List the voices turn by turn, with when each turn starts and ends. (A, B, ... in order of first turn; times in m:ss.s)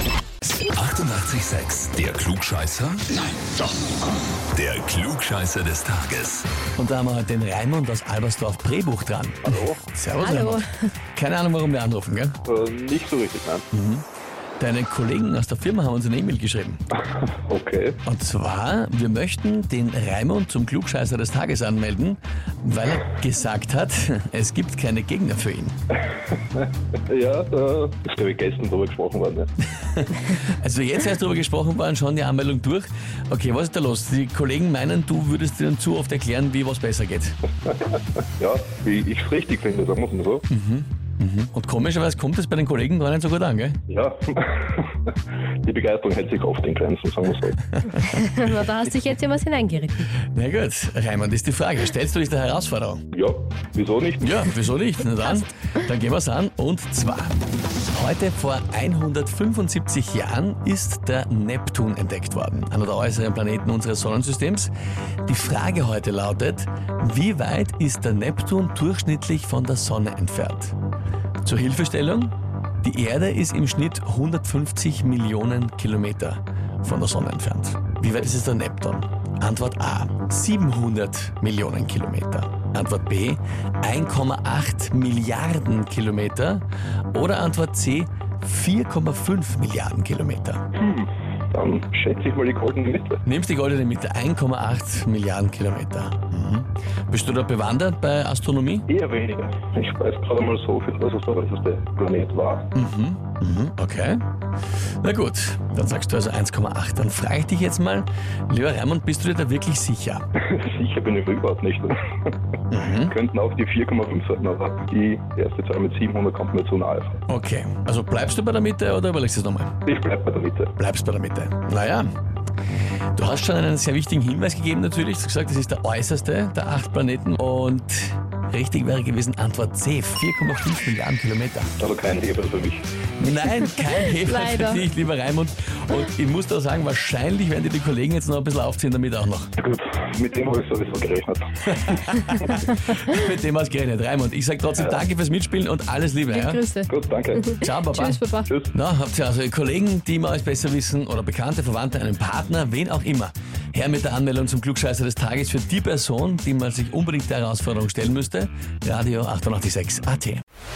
0:00.6-0:06.5 A
0:06.8-0:10.6 B
0:09.4-0:09.8 C
0:10.2-0:10.6 D
0:11.1-0:12.4 B
0:12.4-0:13.6 C
0:13.7-0:14.0 B
0:14.6-0:16.8 B
0:17.4-0:18.0 C
0:18.0-0:25.8 B
0:26.6-0:29.5 C
0:29.7-0:37.4 B
0:38.4-0:40.4 C
0:40.5-0:43.8 B
0:43.9-0:44.9 C
0:45.6-0:47.6 C
0:47.7-0:48.2 B
0:48.1-0:50.0 D
0:50.3-0:53.0 B
0:53.1-0:54.5 C
0:54.2-1:04.7 B
1:05.2-1:10.8 B
1:11.4-1:30.7 B
1:30.8-1:33.2 C
1:33.2-1:38.9 B
1:38.9-1:42.7 C
1:42.7-1:44.2 B
1:45.0-1:50.2 B
1:50.5-1:52.3 C
1:52.7-1:53.1 B
1:53.0-1:57.2 C
1:57.3-1:59.8 B
1:59.8-2:00.7 C
2:00.8-2:02.1 B
2:03.2-2:11.7 B
2:11.8-2:12.8 C
2:13.2-2:19.5 B
2:14.1-2:14.8 D
2:19.6-2:22.0 C
2:21.7-2:26.6 B
2:26.3-2:28.5 D
2:26.9-2:27.6 C
2:27.6-2:40.4 B